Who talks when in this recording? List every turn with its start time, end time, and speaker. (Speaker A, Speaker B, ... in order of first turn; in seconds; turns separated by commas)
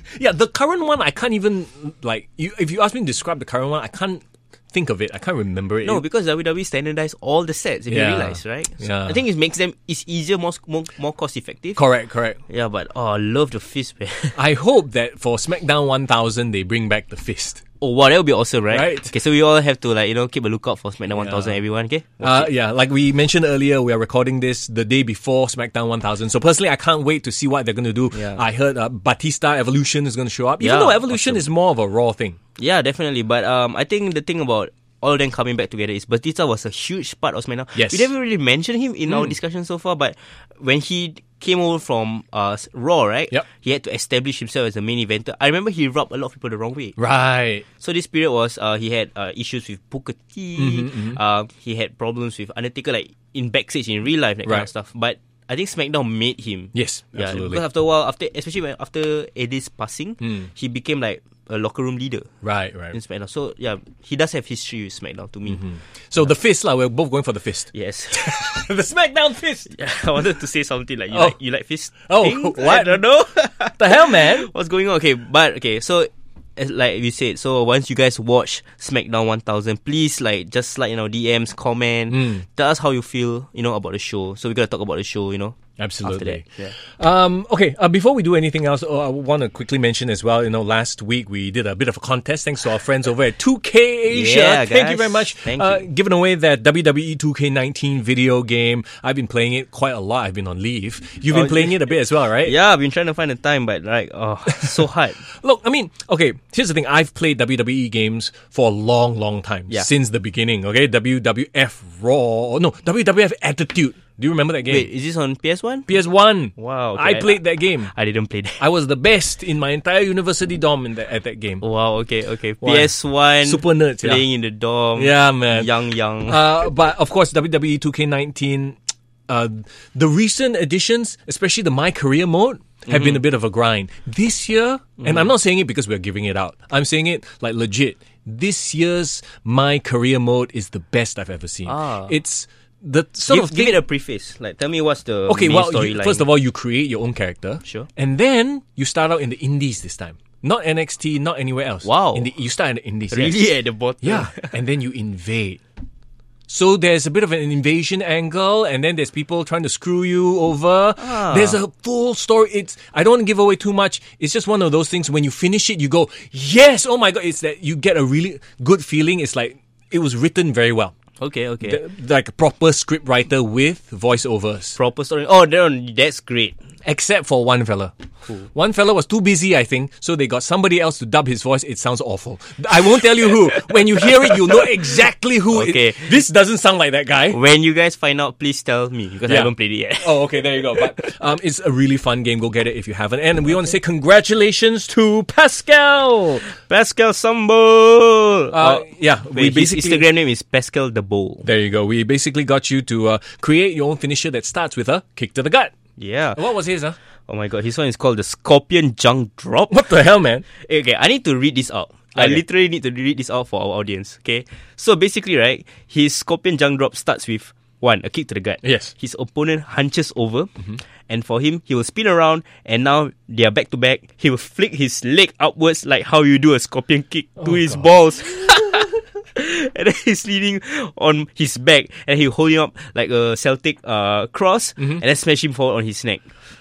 Speaker A: 0.1-6.0, Speaker B: 5.8-11.8, Speaker A: 7.9-9.2, Speaker A: 11.8-12.4, Speaker B: 12.5-14.4, Speaker A: 14.3-17.6, Speaker B: 17.8-22.5, Speaker A: 18.7-19.1, Speaker A: 21.1-21.6, Speaker A: 22.2-32.4, Speaker B: 28.1-28.4, Speaker B: 30.6-31.5, Speaker B: 32.6-47.0, Speaker A: 37.8-38.1, Speaker A: 39.1-39.4, Speaker A: 47.0-47.7, Speaker B: 47.8-62.3, Speaker A: 50.6-51.2, Speaker A: 56.7-57.6, Speaker A: 60.2-60.5, Speaker A: 62.4-63.0, Speaker B: 62.9-65.6, Speaker A: 65.5-69.7, Speaker B: 67.7-68.6, Speaker B: 69.7-86.8, Speaker A: 71.1-71.4, Speaker A: 72.1-73.0, Speaker A: 73.7-74.5, Speaker A: 82.1-82.5, Speaker A: 85.8-102.5, Speaker B: 94.1-95.9, Speaker B: 101.3-105.2, Speaker A: 105.3-114.9, Speaker B: 114.7-115.9, Speaker A: 115.9-117.9, Speaker B: 116.6-118.6, Speaker A: 118.6-121.6, Speaker B: 121.6-126.4, Speaker A: 122.6-124.2, Speaker A: 125.0-125.7, Speaker A: 126.3-143.8, Speaker B: 132.9-133.2, Speaker B: 135.0-135.3, Speaker B: 141.7-142.2, Speaker B: 143.2-146.3, Speaker A: 145.3-155.6, Speaker B: 151.8-152.3, Speaker B: 153.1-154.5, Speaker A: 156.5-170.9, Speaker B: 161.0-161.6, Speaker B: 171.2-171.8, Speaker A: 171.6-174.8, Speaker B: 174.8-176.6, Speaker A: 176.8-177.9, Speaker A: 178.5-187.4, Speaker B: 183.3-184.7, Speaker B: 185.5-186.2, Speaker B: 187.3-191.1, Speaker A: 189.3-196.4, Speaker B: 196.5-201.5, Speaker A: 198.5-200.1, Speaker A: 201.4-205.7, Speaker B: 206.0-206.4, Speaker A: 206.3-207.0, Speaker B: 207.3-209.8, Speaker A: 209.7-210.4, Speaker B: 210.6-220.5, Speaker A: 212.2-212.4, Speaker A: 218.6-218.9, Speaker B: 221.1-236.3, Speaker A: 227.4-228.9, Speaker A: 234.8-235.0